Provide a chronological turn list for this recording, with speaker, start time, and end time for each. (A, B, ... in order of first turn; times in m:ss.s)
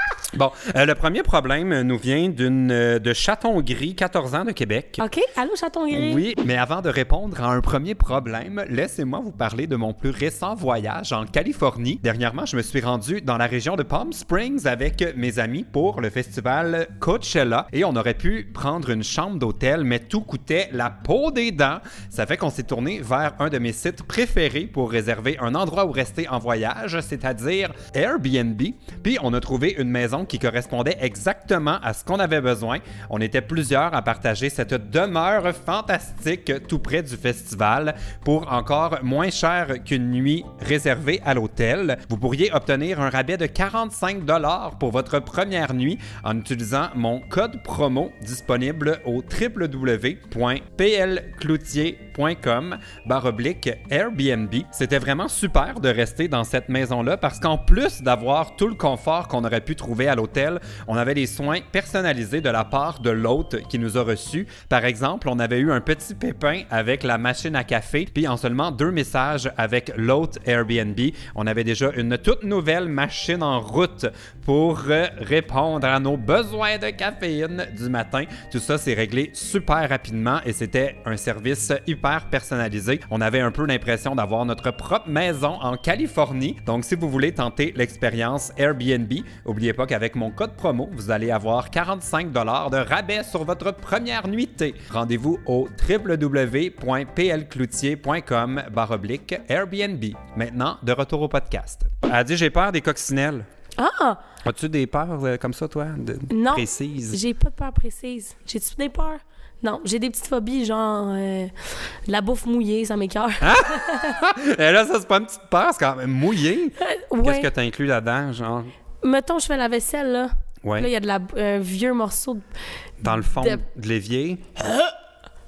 0:00.3-0:05.0 A
0:05.0-0:06.2 B
0:05.9-1:43.4 A
1:43.8-1:44.2 B
1:44.4-1:47.2 A
1:46.3-1:51.5 B
1:52.0-1:54.2 B
1:53.4-1:58.7 A
1:56.8-1:57.5 B
1:59.0-2:02.4 B
2:00.6-2:00.9 A
2:03.0-2:04.5 A
2:03.0-2:03.6 B
2:04.6-2:04.9 B